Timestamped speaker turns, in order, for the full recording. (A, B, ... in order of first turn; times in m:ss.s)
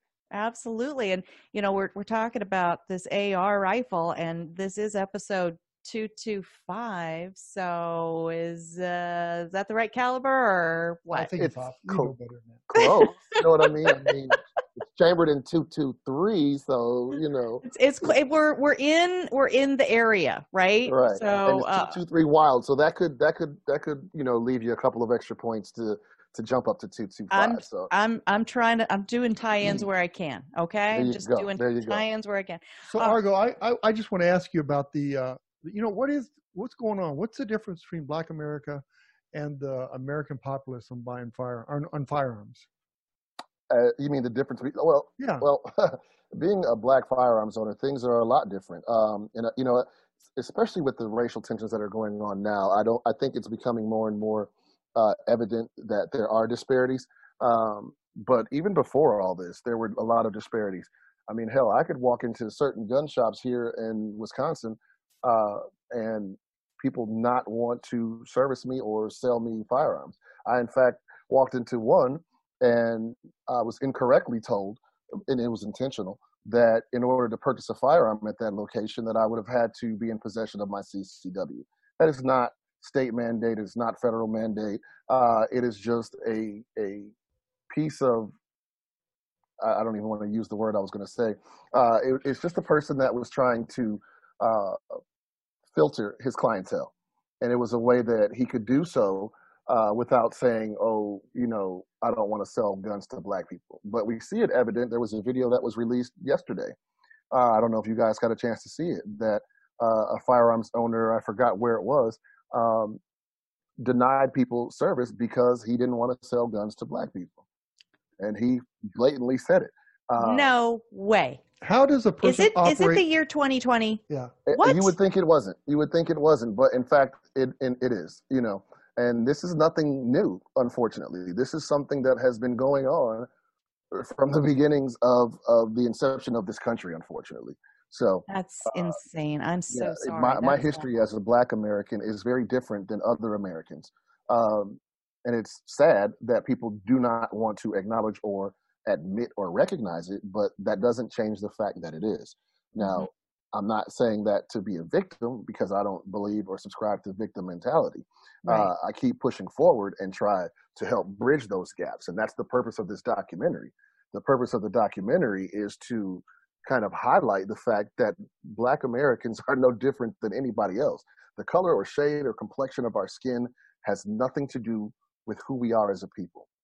0:00.3-0:11.3 A
0:11.1-0:12.7 B
0:11.4-0:12.1 C
0:12.7-0:17.6 C
0:12.8-0:14.2 A
0:17.6-0:22.0 A
0:20.9-0:27.9 C
0:27.3-0:33.2 A
0:30.9-0:32.0 C
0:32.9-0:42.7 B
0:43.7-1:27.1 C
0:45.2-0:45.4 B
1:27.7-1:28.3 C
1:29.6-1:35.0 C
1:35.7-1:46.8 C
1:47.3-1:53.0 C
1:53.8-1:57.4 C
1:58.2-2:00.5 C
2:00.2-2:01.4 A
2:01.6-2:03.0 B
2:02.2-2:04.0 A
2:04.5-2:13.3 C
2:04.5-2:04.9 A
2:13.9-2:19.0 C
2:18.3-2:20.9 A
2:19.7-2:56.5 C
2:32.8-2:33.1 A